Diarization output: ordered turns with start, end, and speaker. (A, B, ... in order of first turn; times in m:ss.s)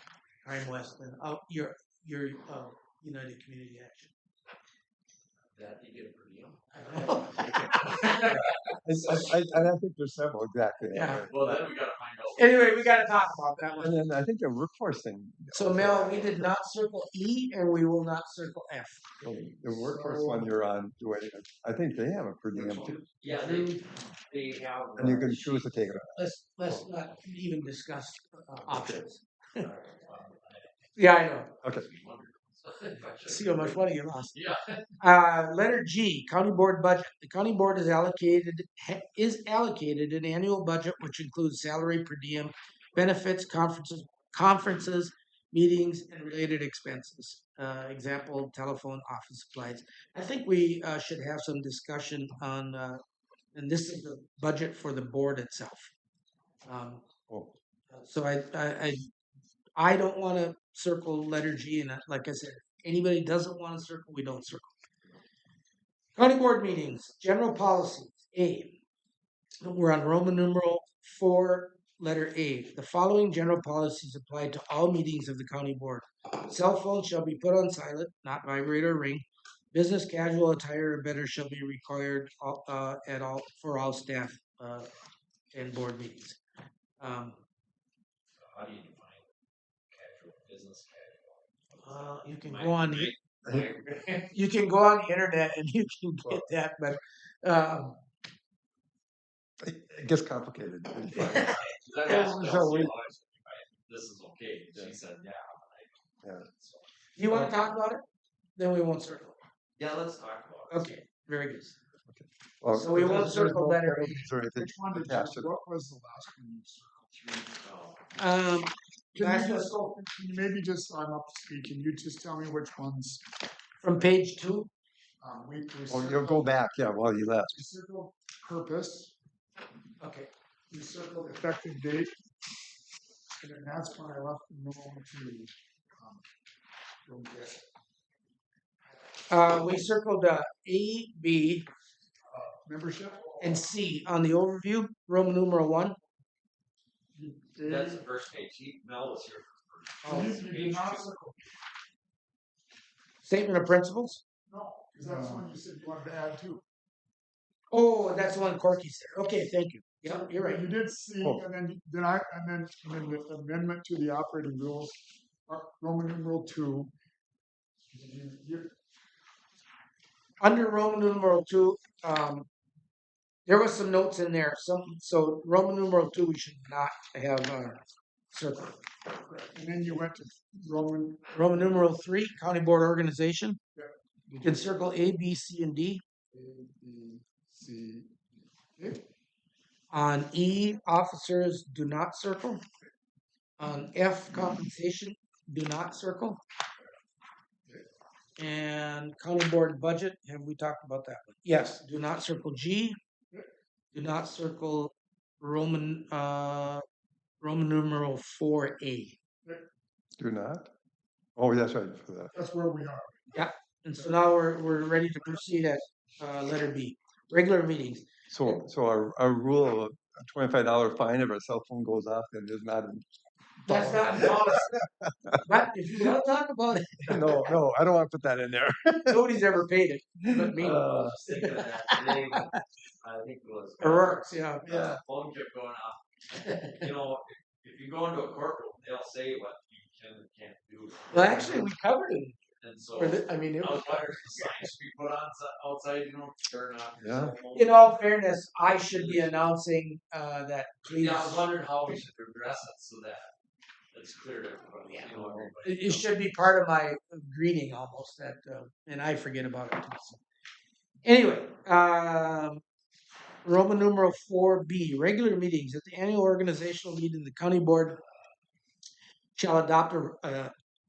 0:00.4-0:04.1 A
0:05.5-0:09.3 B
0:06.7-0:08.4 A
0:08.3-0:11.6 C
0:10.9-0:11.3 A
0:11.2-0:13.0 B
0:12.4-0:14.0 A
0:13.8-0:16.4 C
0:15.5-0:19.0 A
0:19.2-0:23.0 C
0:19.7-0:20.5 D
0:22.5-0:25.9 B
0:23.2-0:23.8 D
0:25.0-0:26.8 C
0:26.1-0:29.7 A
0:28.7-0:29.0 C
0:29.6-0:30.9 B
0:31.0-0:31.5 A
0:31.6-0:34.9 B
0:33.2-0:34.3 A
0:35.0-0:53.0 A
0:53.5-0:55.9 A
0:56.6-0:57.0 A
0:57.3-0:57.5 C
0:57.9-0:59.1 A
0:59.8-1:04.7 A
1:06.2-1:08.8 A
1:09.6-1:24.9 A
1:25.5-1:26.4 A
1:27.0-1:27.4 A
1:28.4-1:29.2 B
1:29.9-1:34.3 B
1:31.8-1:33.1 A
1:34.3-1:38.0 A
1:39.6-1:41.6 C
1:41.2-1:42.9 A
1:41.5-1:46.9 B
1:47.2-1:48.0 A
1:48.6-1:49.4 A
1:49.8-1:50.9 B
1:50.7-1:51.7 A
1:52.1-1:55.5 C
1:52.7-1:54.2 A
1:53.0-1:53.4 D
1:54.4-1:57.5 D
1:57.5-1:58.0 B
1:58.2-1:59.8 A
1:59.1-2:03.2 D
2:03.8-2:04.7 A
2:05.2-2:06.5 D
2:05.9-2:07.5 C
2:07.5-2:09.1 D
2:10.0-2:10.3 A
2:10.7-2:12.1 D
2:13.4-2:16.2 D
2:17.0-2:17.6 D
2:19.3-2:21.6 A
2:22.3-2:23.6 D
2:23.4-2:26.0 A
2:27.1-2:28.0 D
2:27.6-2:31.1 B
2:30.0-2:30.4 A
2:30.0-2:31.6 D
2:33.2-2:34.2 A
2:34.5-2:36.6 D
2:37.7-2:40.6 A
2:40.0-2:45.0 D
2:45.5-2:46.9 D
2:47.9-2:48.7 D
2:50.4-2:52.5 A
2:53.4-2:57.8 A
2:58.3-2:58.8 A
2:59.2-3:01.3 D
3:01.3-3:03.6 A
3:03.7-3:04.6 D
3:04.4-3:06.0 A
3:06.3-3:08.1 D
3:08.8-3:09.0 D
3:09.9-3:12.6 A
3:13.6-3:16.4 A
3:18.4-3:23.0 A
3:23.9-3:26.8 A
3:27.4-3:29.2 A
3:30.2-3:30.7 C
3:31.4-3:32.3 C
3:32.3-3:33.5 D
3:33.3-3:38.0 A
3:38.3-3:43.0 C
3:43.6-3:45.4 C
3:43.7-3:44.8 A
3:45.4-3:47.6 A
3:47.0-3:49.2 C
3:49.1-3:50.8 A
3:50.4-3:51.2 C
3:50.7-4:01.7 B
3:51.4-3:52.6 A
3:53.8-3:54.6 A
3:54.6-3:55.0 C
3:56.4-3:56.8 A
4:01.1-4:02.4 A
4:02.6-4:08.0 B
4:02.9-4:04.5 A
4:07.0-4:07.3 C
4:07.5-4:12.0 A
4:08.7-4:09.5 B
4:10.8-4:13.3 B
4:13.9-4:16.2 B
4:15.2-4:15.5 C
4:15.6-4:20.2 A
4:21.0-4:22.6 A
4:23.4-4:28.0 A
4:29.4-4:30.5 A